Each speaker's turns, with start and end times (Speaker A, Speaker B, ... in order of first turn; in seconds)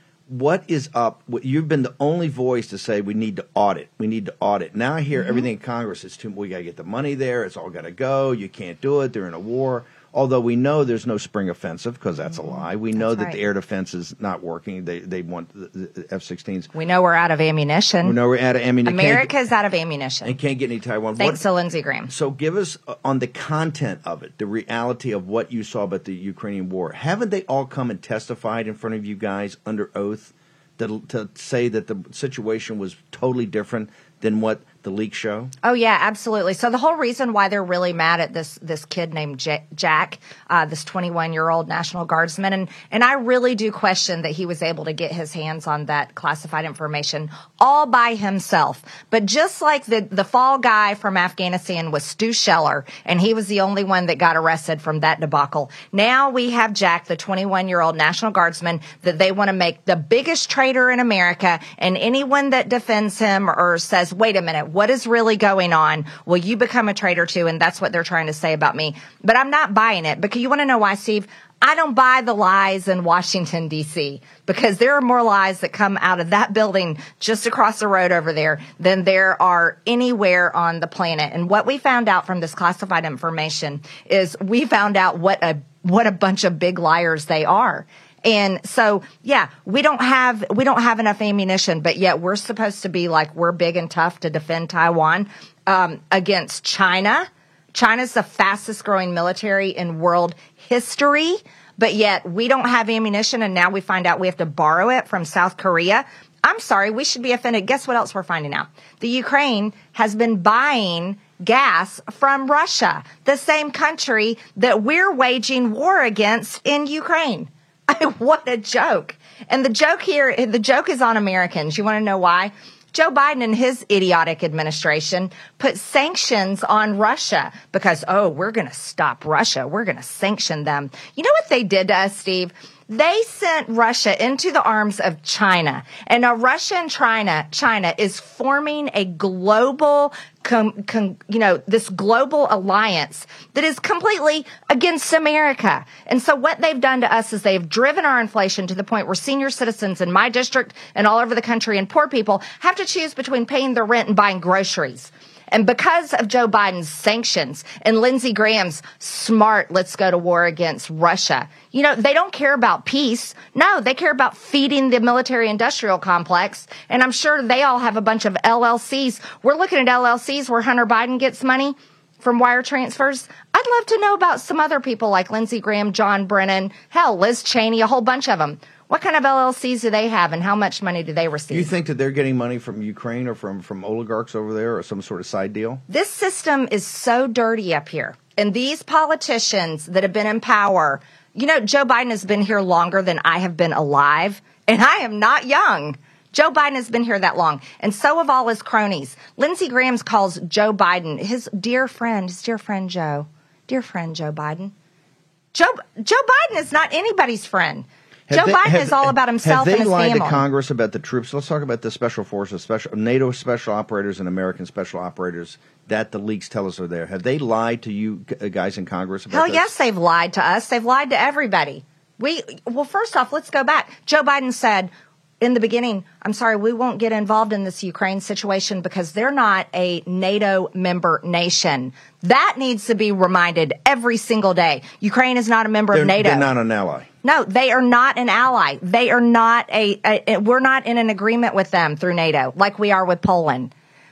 Speaker A: 0.3-16.7, 18.0-19.3, 20.2-21.4, 22.1-35.5, 181.5-185.8, 208.3-219.7, 235.9-237.1
Speaker B: 5.1-5.5, 12.3-13.4, 16.7-18.2, 18.8-20.3, 21.2-22.1, 35.6-181.7, 185.9-204.7, 205.5-210.4, 219.3-236.5, 237.2-243.7